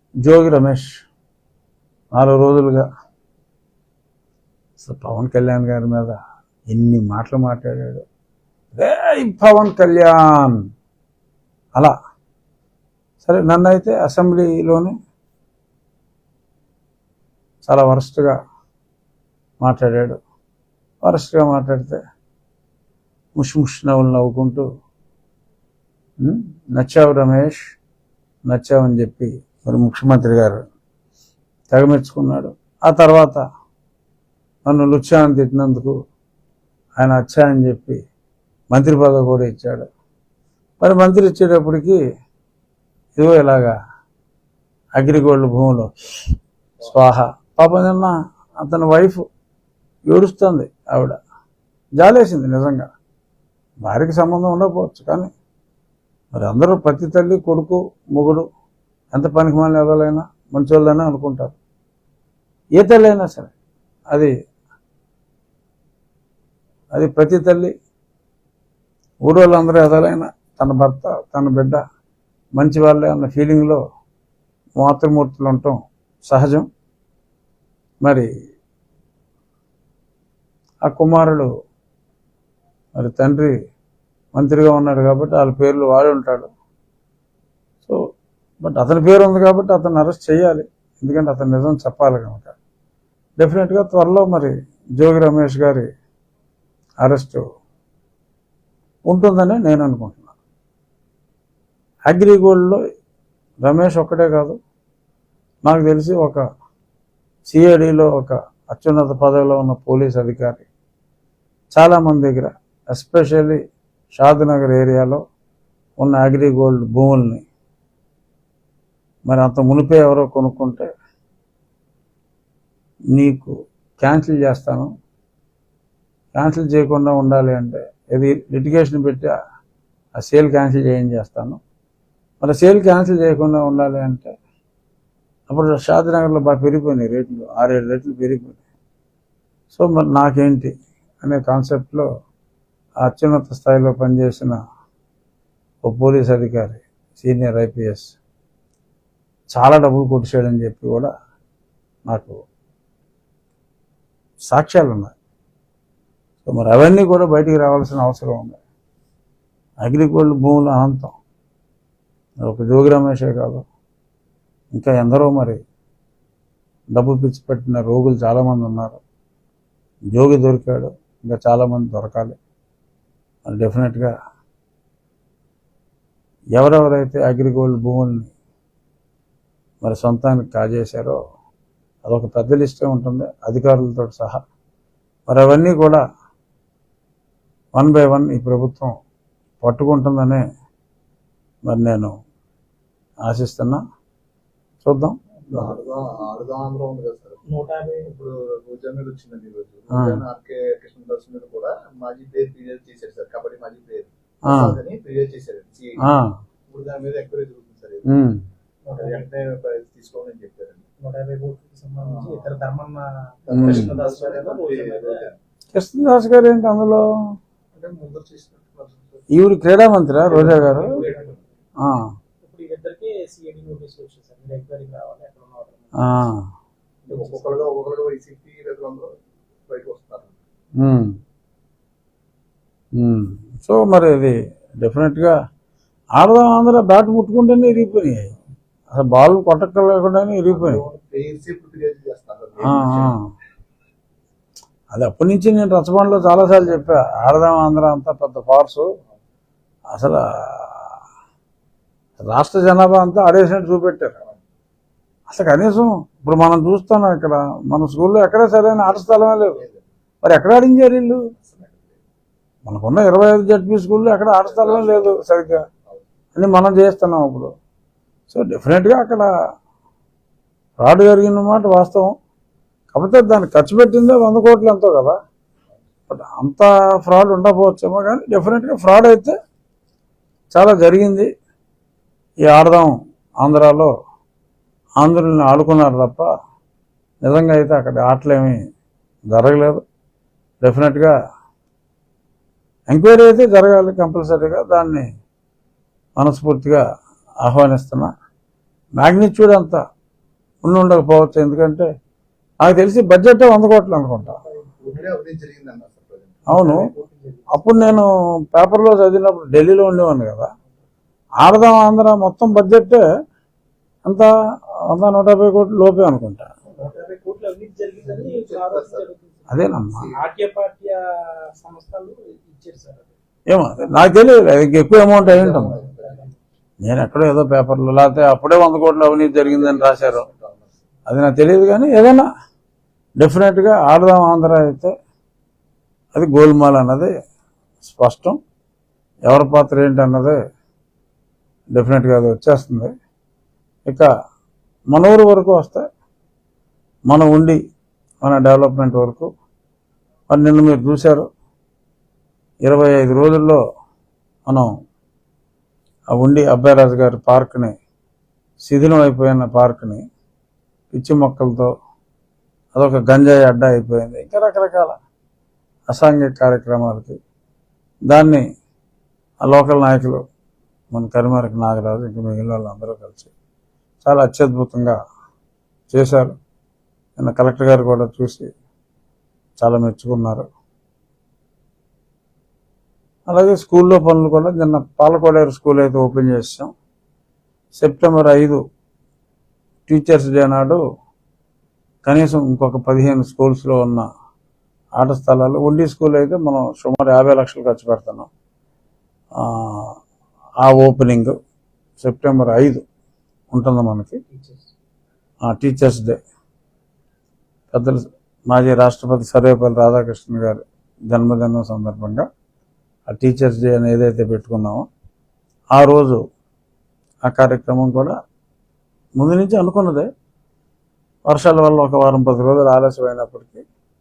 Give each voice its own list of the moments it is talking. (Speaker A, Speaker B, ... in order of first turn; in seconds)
Speaker A: 0.2-1.1, 2.1-2.9, 4.8-6.1, 6.7-8.0, 8.7-10.6, 13.2-14.9, 17.6-18.4, 19.6-20.2, 21.0-22.0, 23.4-24.6, 26.2-27.6, 28.5-30.6, 31.7-33.4, 34.7-35.9, 37.0-38.0, 38.7-39.9, 40.8-42.0, 43.2-43.7, 45.0-49.2, 50.1-51.2, 52.0-52.9, 53.8-55.3, 56.3-58.5, 59.1-61.6, 62.8-63.5, 66.9-67.7, 69.2-71.8, 72.5-73.8, 74.8-76.7, 78.0-78.3, 80.8-81.5, 83.0-83.5, 84.3-86.5, 88.6-92.5, 93.4-95.9, 97.0-97.4, 99.1-100.3, 102.1-102.8, 103.6-104.6, 105.7-106.4, 107.5-110.7, 111.8-113.6, 114.1-115.2, 116.0-117.5, 119.2-120.9, 123.2-124.9, 126.3-129.3, 130.2-131.6, 132.4-134.3, 135.5-138.6, 139.7-142.1, 143.0-144.6, 145.8-148.2, 149.5-151.1, 152.1-152.4, 154.5-155.1, 156.4-158.6, 159.8-161.1, 162.4-163.6, 164.7-165.6, 166.9-169.0, 170.1-172.4, 173.5-174.1, 176.6-178.3, 179.8-181.2, 182.1-184.4, 185.3-186.0, 187.8-188.9, 189.6-190.4, 191.7-192.1, 193.3-193.8, 194.8-195.2, 199.9-200.2, 204.4-204.8, 206.0-206.3, 208.1-208.4, 213.5-213.9, 215.7-217.1, 219.3-220.9, 221.8-222.1, 226.0-226.5, 230.8-231.2, 232.9-235.3, 236.2-238.3, 238.9-240.8, 242.6-243.3, 244.9-248.9, 249.9-250.9, 252.2-254.2, 255.3-259.6, 260.2-261.2, 262.6-265.6, 266.4-267.5, 268.3-269.3, 270.8-272.1, 272.9-275.2, 276.1-279.3, 280.5-281.3, 282.4-283.9, 285.0-286.3, 287.2-288.6, 289.3-289.8, 290.6-291.1, 292.9-295.1, 296.2-296.8, 297.4-298.1, 299.0-299.8, 300.6-301.9, 302.6-304.4, 306.5-306.8, 307.5-310.5, 311.4-313.0, 314.9-316.5, 319.5-320.1, 323.5-325.8, 326.8-330.3, 331.1-332.3, 333.2-334.9, 336.1-337.1, 337.8-338.4, 339.2-340.4, 341.7-342.9, 344.9-345.9, 347.1-347.6, 348.2-349.3, 350.3-351.3, 352.6-353.6, 356.1-357.8, 358.6-360.0, 360.9-361.7, 362.7-365.0, 365.9-367.2, 368.1-368.4, 369.4-370.2, 370.9-373.3, 374.0-375.0, 375.9-376.3, 377.2-378.5, 379.6-380.5, 383.3-386.7, 387.8-388.6, 389.9-390.8, 392.1-394.1, 395.0-398.3, 399.4-399.9, 400.6-401.3, 402.0-402.8, 403.5-404.2, 405.4-406.2, 407.7-412.3, 413.1-414.9, 415.7-416.2, 417.2-418.1, 419.2-420.1, 421.3-423.6
Speaker B: 195.5-197.4, 198.0-206.0, 206.7-208.1, 208.9-210.9, 212.0-212.6, 213.5-215.4, 217.8-219.2, 220.3-221.4, 227.1-229.1, 229.7-230.4, 240.5-243.2, 258.7-259.9, 261.4-262.0, 264.4-265.1, 304.7-306.4, 318.1-319.1, 325.2-326.3, 329.2-330.7
Speaker C: 197.5-198.1, 208.8-209.3, 211.0-215.3, 220.3-221.4, 222.4-226.3, 227.0-227.7, 306.5-308.0, 316.8-323.1, 404.3-404.7